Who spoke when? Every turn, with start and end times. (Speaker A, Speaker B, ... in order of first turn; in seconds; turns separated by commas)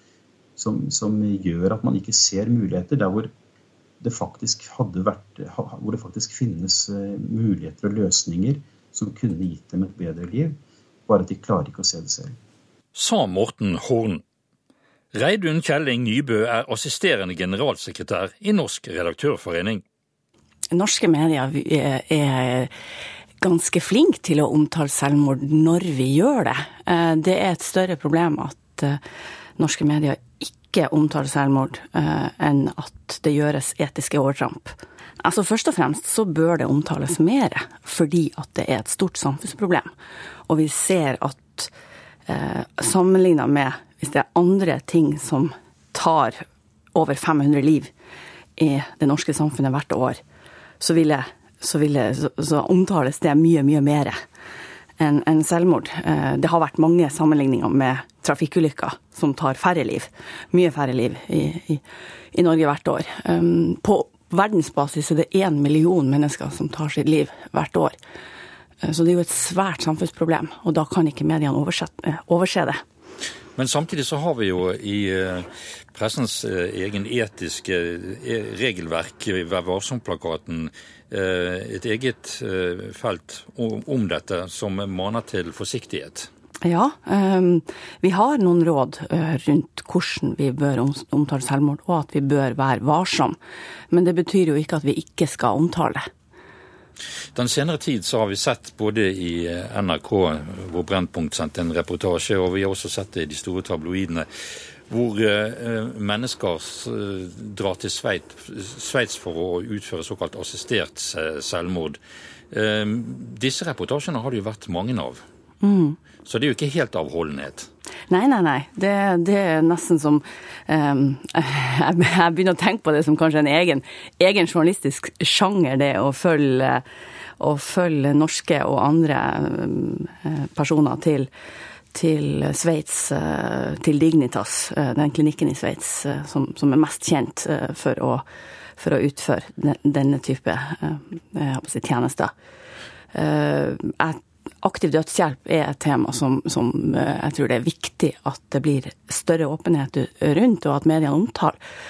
Speaker A: 0.6-3.3, Speaker A: 4.0-12.4, Speaker B: 12.9-14.2, Speaker B: 15.1-19.8, Speaker C: 20.7-22.7, Speaker C: 23.4-29.0, Speaker C: 29.6-39.9, Speaker C: 40.5-41.7, Speaker C: 42.3-46.4, Speaker C: 46.9-47.9, Speaker C: 48.6-50.2, Speaker C: 50.8-54.2, Speaker C: 55.0-61.8, Speaker C: 62.3-68.0, Speaker C: 68.8-72.8, Speaker B: 73.6-86.3, Speaker C: 86.6-93.4, Speaker C: 93.9-96.1, Speaker B: 97.3-104.3, Speaker B: 104.9-112.0, Speaker B: 112.5-115.2, Speaker C: 115.6-116.0, Speaker B: 116.2-117.7, Speaker C: 118.1-126.8, Speaker C: 127.4-131.3, Speaker C: 131.9-138.2, Speaker C: 138.8-142.3, Speaker C: 143.1-151.6